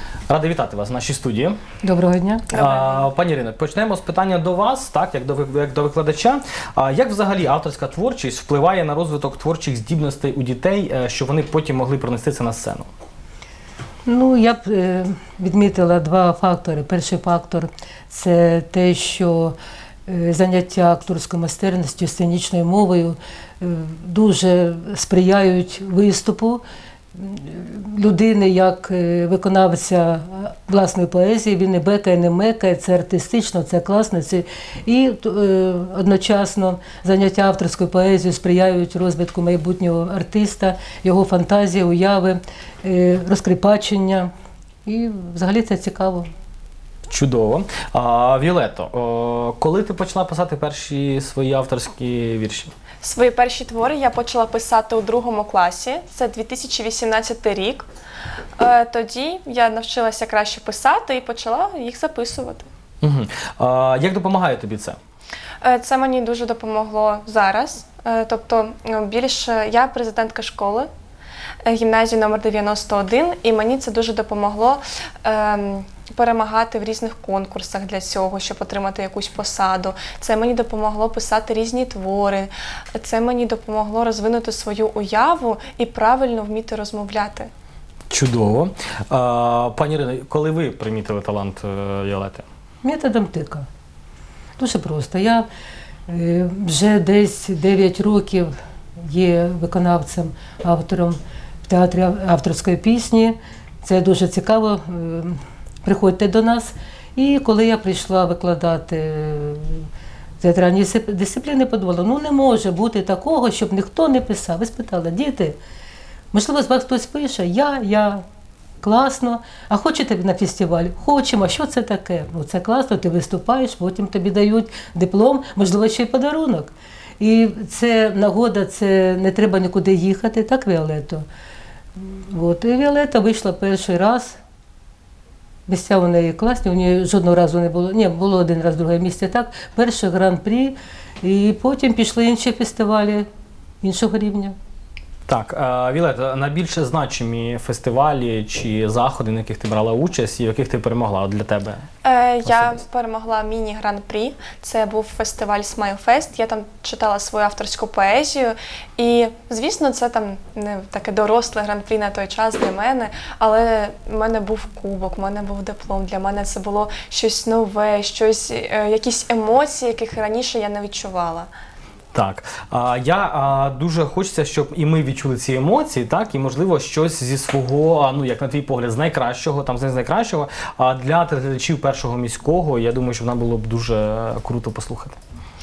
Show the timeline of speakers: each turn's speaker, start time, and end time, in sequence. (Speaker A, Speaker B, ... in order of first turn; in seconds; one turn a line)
Speaker A: 0.3-1.6
Speaker B: 1.8-2.6
Speaker A: 2.5-12.9
Speaker B: 14.1-26.6
Speaker B: 27.1-44.3
Speaker B: 44.8-46.3
Speaker A: 47.1-52.7
Speaker C: 53.0-57.9
Speaker C: 58.6-62.7
Speaker A: 63.0-65.0
Speaker C: 65.6-70.9
Speaker C: 71.6-87.5
Speaker A: 88.1-92.4
Speaker B: 92.8-93.7
Speaker B: 94.6-95.5
Speaker B: 96.1-109.9
Speaker B: 110.4-115.6
Speaker B: 116.3-118.2
Speaker B: 118.8-131.2
Speaker B: 132.0-134.4
Speaker B: 135.7-143.2
Speaker B: 143.8-144.5
Speaker A: 145.3-151.8
Speaker C: 152.0-171.5
Speaker A: 152.4-152.8
Speaker A: 172.1-185.2